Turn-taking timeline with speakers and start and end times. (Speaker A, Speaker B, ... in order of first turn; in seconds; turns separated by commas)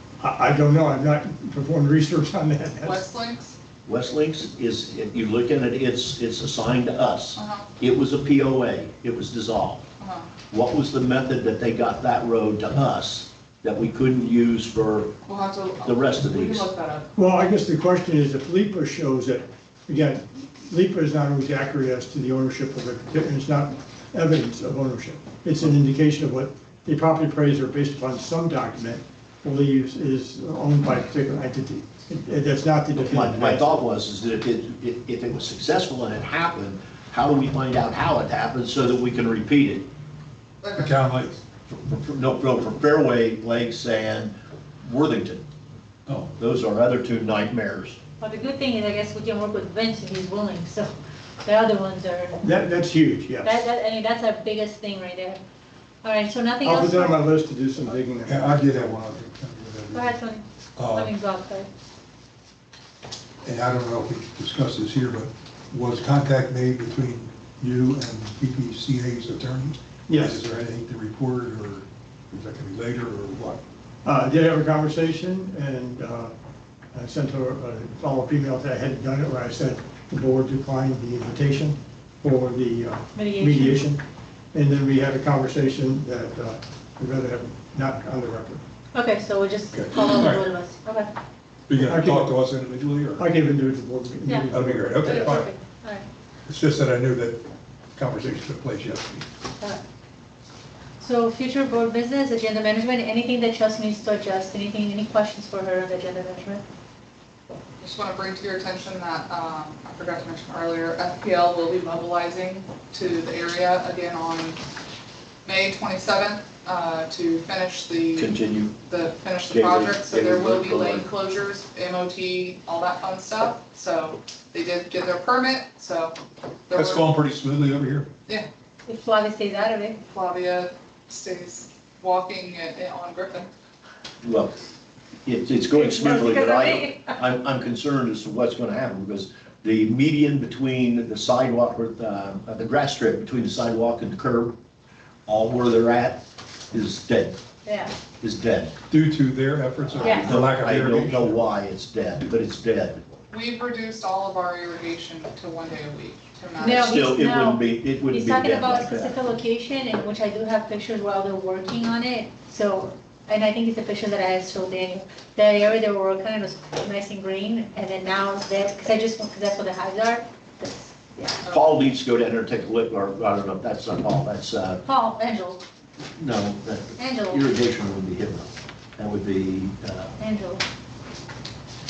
Speaker A: 0.2-3.0, Speaker B: 2.8-3.5, Speaker C: 3.8-9.8, Speaker B: 7.3-7.7, Speaker B: 10.0-10.3, Speaker C: 10.5-15.1, Speaker B: 15.2-17.1, Speaker C: 15.8-16.6, Speaker A: 17.1-33.8, Speaker C: 33.0-39.9, Speaker B: 40.6-41.1, Speaker D: 40.7-41.4, Speaker C: 41.7-45.4, Speaker D: 46.1-46.3, Speaker C: 46.4-48.0, Speaker E: 48.2-50.9, Speaker E: 51.4-52.4, Speaker A: 52.4-53.6, Speaker E: 53.4-55.4, Speaker E: 56.0-57.3, Speaker A: 56.6-58.9, Speaker D: 58.2-60.1, Speaker E: 59.9-61.7, Speaker D: 60.8-61.1, Speaker D: 63.4-73.6, Speaker A: 70.1-70.4, Speaker A: 74.0-76.3, Speaker A: 76.9-84.0, Speaker E: 83.1-83.9, Speaker A: 84.5-88.6, Speaker E: 88.9-91.1, Speaker D: 89.7-90.4, Speaker D: 91.7-93.3, Speaker A: 91.7-92.3, Speaker A: 93.2-95.4, Speaker D: 94.5-95.5, Speaker E: 95.0-96.0, Speaker D: 96.5-97.4, Speaker D: 98.0-99.2, Speaker E: 101.0-106.6, Speaker B: 107.8-114.6, Speaker B: 115.4-118.3, Speaker C: 118.2-118.8, Speaker B: 118.8-126.2, Speaker C: 119.5-121.1, Speaker B: 126.7-127.1, Speaker D: 126.7-128.1, Speaker E: 128.9-130.0, Speaker B: 130.1-133.5, Speaker C: 134.2-134.6, Speaker C: 135.2-144.5, Speaker E: 135.7-137.2, Speaker C: 145.2-147.4, Speaker E: 147.7-147.9, Speaker C: 148.2-148.7, Speaker D: 148.9-151.4, Speaker E: 150.0-150.4, Speaker C: 150.0-153.0, Speaker B: 153.3-157.1, Speaker E: 156.6-171.4, Speaker C: 156.7-159.2, Speaker B: 171.5-171.8, Speaker C: 171.5-174.8, Speaker E: 174.8-175.6, Speaker C: 176.2-180.1, Speaker E: 177.0-177.5, Speaker E: 180.2-180.6